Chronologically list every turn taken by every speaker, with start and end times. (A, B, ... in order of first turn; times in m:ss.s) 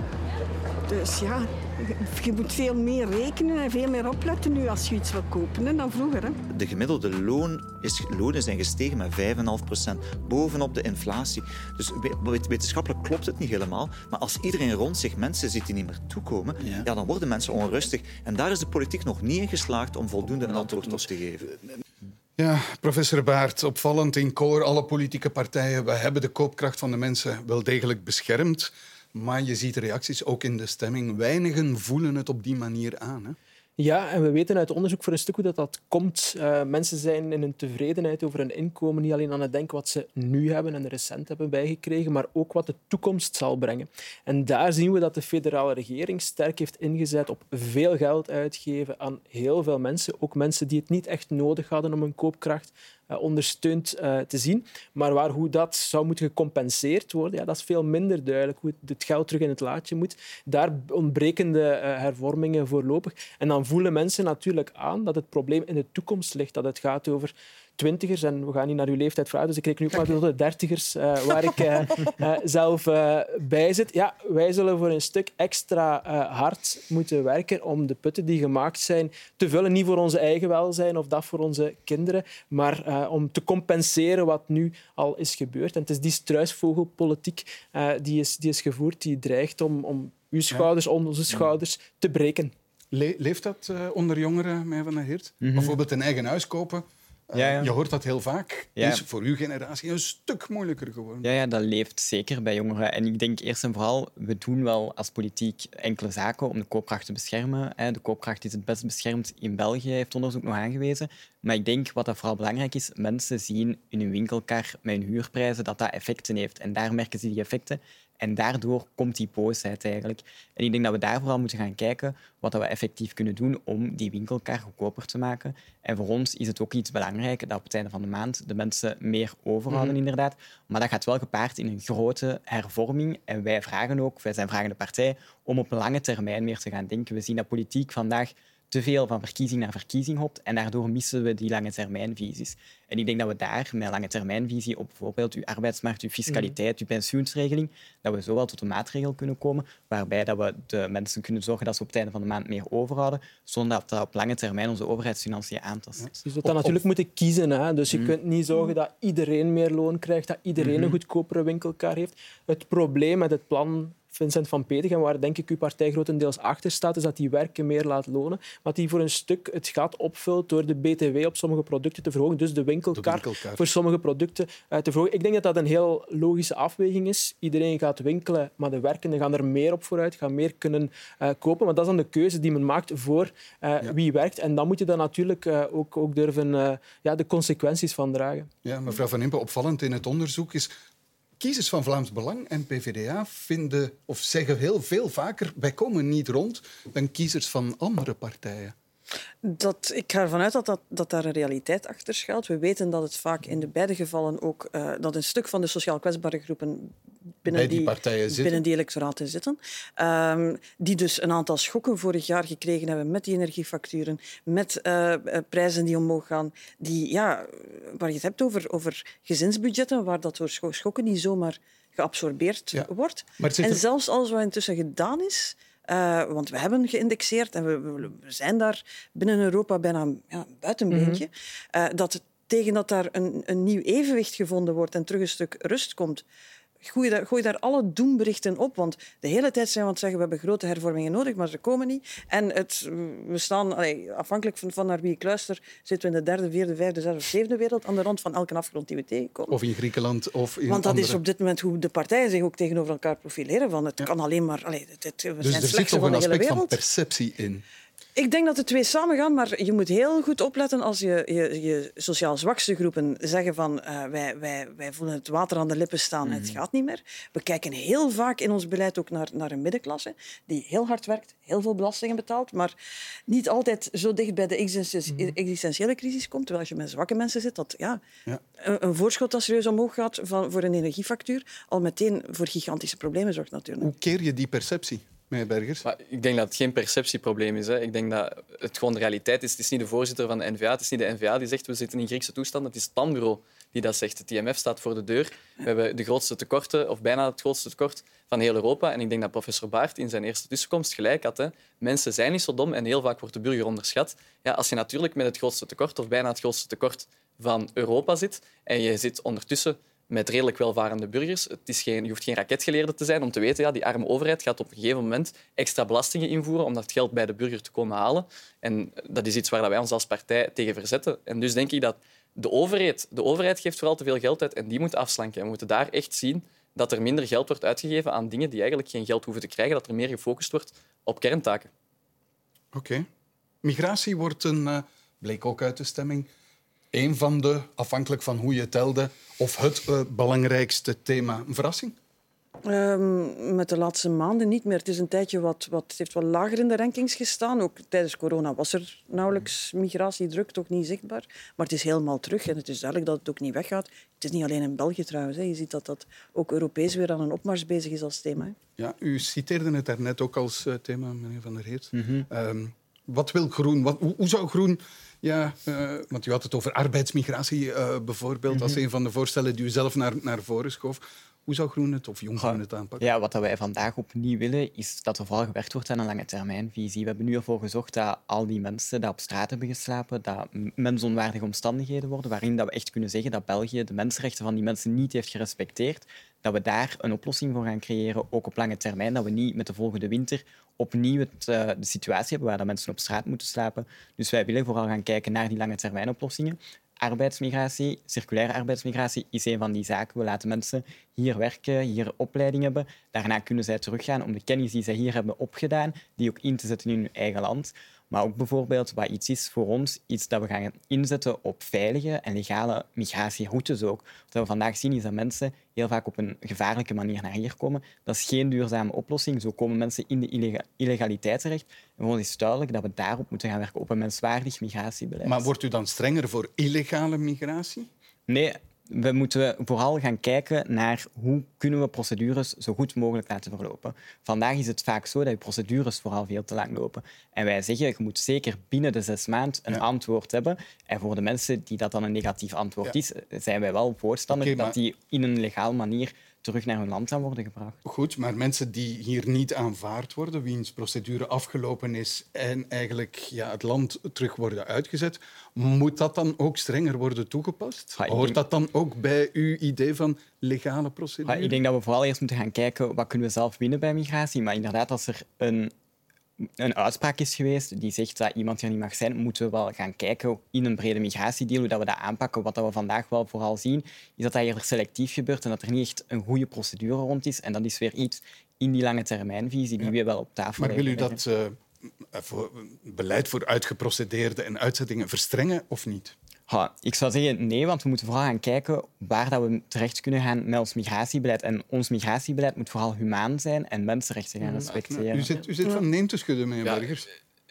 0:00.9-0:06.4 A
0:06.5-0:21.5 B
0:22.4-0:33.4 C
0:33.8-1:32.5 D
1:32.9-1:41.3 C
1:35.4-1:35.8 E
1:37.4-1:37.7 E
1:38.8-1:39.0 E
1:41.2-2:36.8 E
2:26.3-2:26.6 D
2:36.2-3:08.5 D
2:52.9-2:53.7 C
3:08.6-3:10.7 C
3:11.4-3:18.7 C
3:19.4-3:26.9 F
3:27.4-3:56.2 F
3:27.5-3:28.6 C
3:42.7-3:43.8 C
3:50.9-3:51.2 D
3:56.8-4:09.6 F
4:09.5-4:11.2 C
4:10.7-4:16.8 F
4:15.4-4:17.6 C
4:18.2-4:32.7 F
4:26.3-4:26.5 E
4:33.3-4:38.0 F
4:38.6-4:43.9 F
4:43.8-4:45.8 C
4:45.8-5:31.7 G
5:32.7-5:33.1 C
5:33.6-5:36.3 C
5:36.9-5:42.0 C
5:42.7-5:58.6 F
5:58.8-6:13.1 C
6:01.9-6:02.3 E
6:08.5-6:08.8 E
6:12.4-7:05.5 E
7:05.2-7:07.9 C
7:08.3-7:27.8 E
7:24.3-7:24.8 C
7:27.8-7:41.6 C
7:38.0-7:38.4 E
7:41.3-7:45.7 E
7:46.4-8:01.2 E
8:00.6-8:01.6 C
8:02.1-8:06.2 C
8:06.5-8:15.3 E
8:14.9-8:17.0 C